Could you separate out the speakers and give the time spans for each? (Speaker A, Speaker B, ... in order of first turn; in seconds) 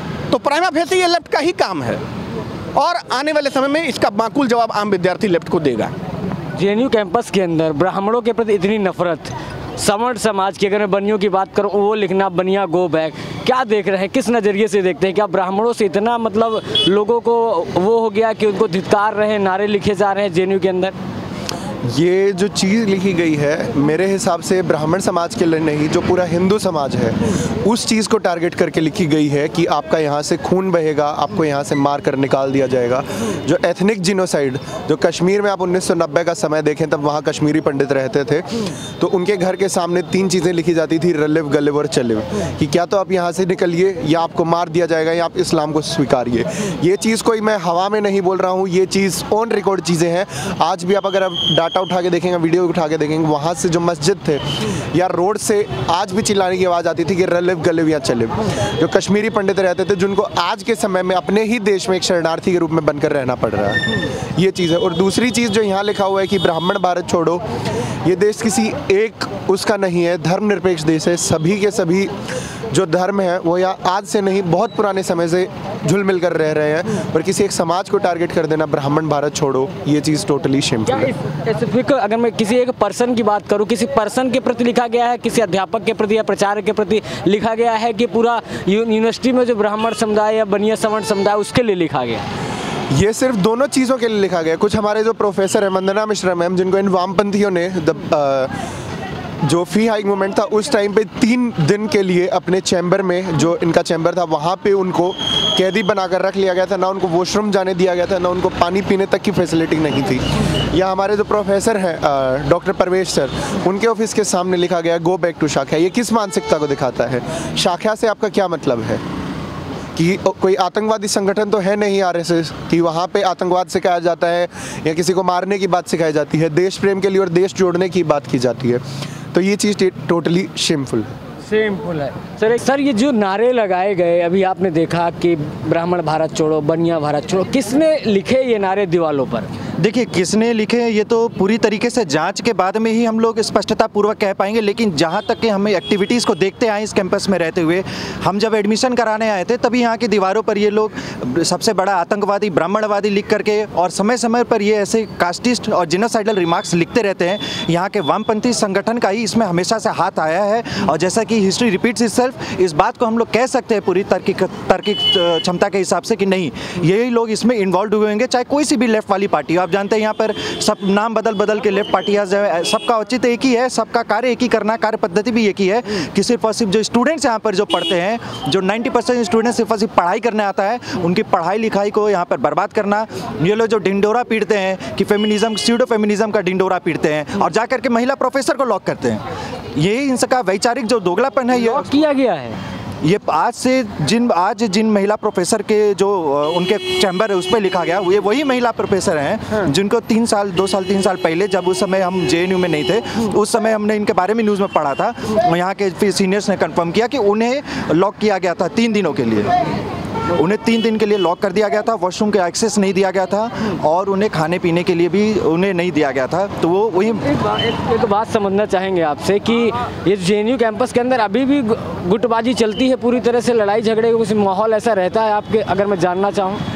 Speaker A: 0.3-2.0, 2.8-5.9
Speaker B: 6.5-20.9, 80.9-92.2, 131.5-139.5, 191.6-192.6, 217.3-226.6
Speaker C: 21.9-67.4, 68.0-72.1, 72.7-81.1, 92.9-98.5, 99.4-119.0, 120.0-128.8, 129.3-131.1
Speaker D: 139.8-189.2, 189.8-191.9, 193.0-209.5, 210.3-217.2